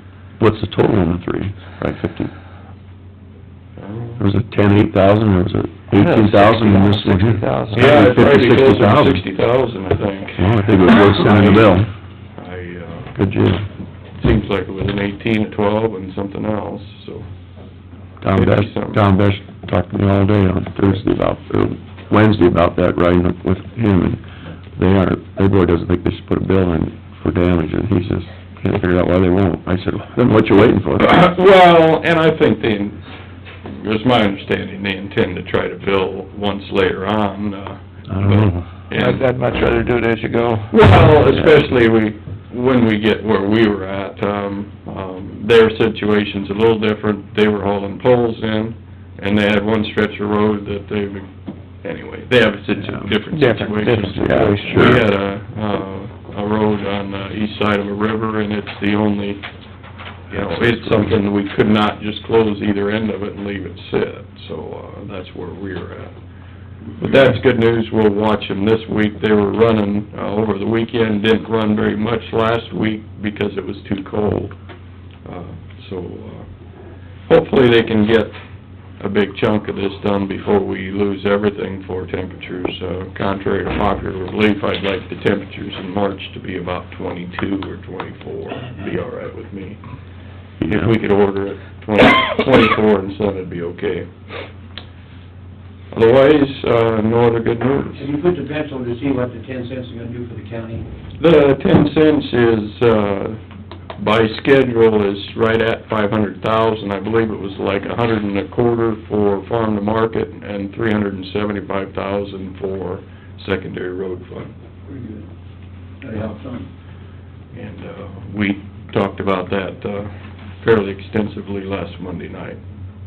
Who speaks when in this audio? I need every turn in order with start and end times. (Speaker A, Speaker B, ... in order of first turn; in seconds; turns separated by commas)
Speaker A: 0.4-2.3, Speaker B: 3.8-4.2, Speaker A: 4.2-9.2, Speaker C: 5.9-8.1, Speaker B: 7.7-11.8, Speaker A: 10.3-11.9, Speaker B: 12.3-13.2, Speaker A: 13.1-13.6, Speaker B: 14.2-17.3, Speaker A: 18.2-24.2, Speaker B: 18.3-19.0, Speaker A: 24.7-31.2, Speaker B: 31.0-33.0, Speaker B: 33.6-39.2, Speaker A: 38.1-38.6, Speaker C: 38.9-40.7, Speaker B: 40.7-51.3, Speaker A: 41.3-41.6, Speaker B: 51.8-59.5, Speaker A: 52.8-53.1, Speaker C: 53.3-55.0, Speaker A: 54.2-55.0, Speaker B: 60.3-66.2, Speaker A: 60.3-61.1, Speaker B: 67.0-74.5, Speaker B: 75.2-76.5, Speaker B: 77.2-78.3, Speaker B: 79.0-89.8, Speaker A: 90.6-90.9, Speaker B: 90.6-94.1, Speaker B: 95.9-98.1, Speaker D: 98.0-100.8, Speaker B: 101.2-103.4, Speaker B: 104.0-114.5, Speaker D: 114.9-115.3, Speaker D: 116.0-116.7, Speaker B: 117.5-122.6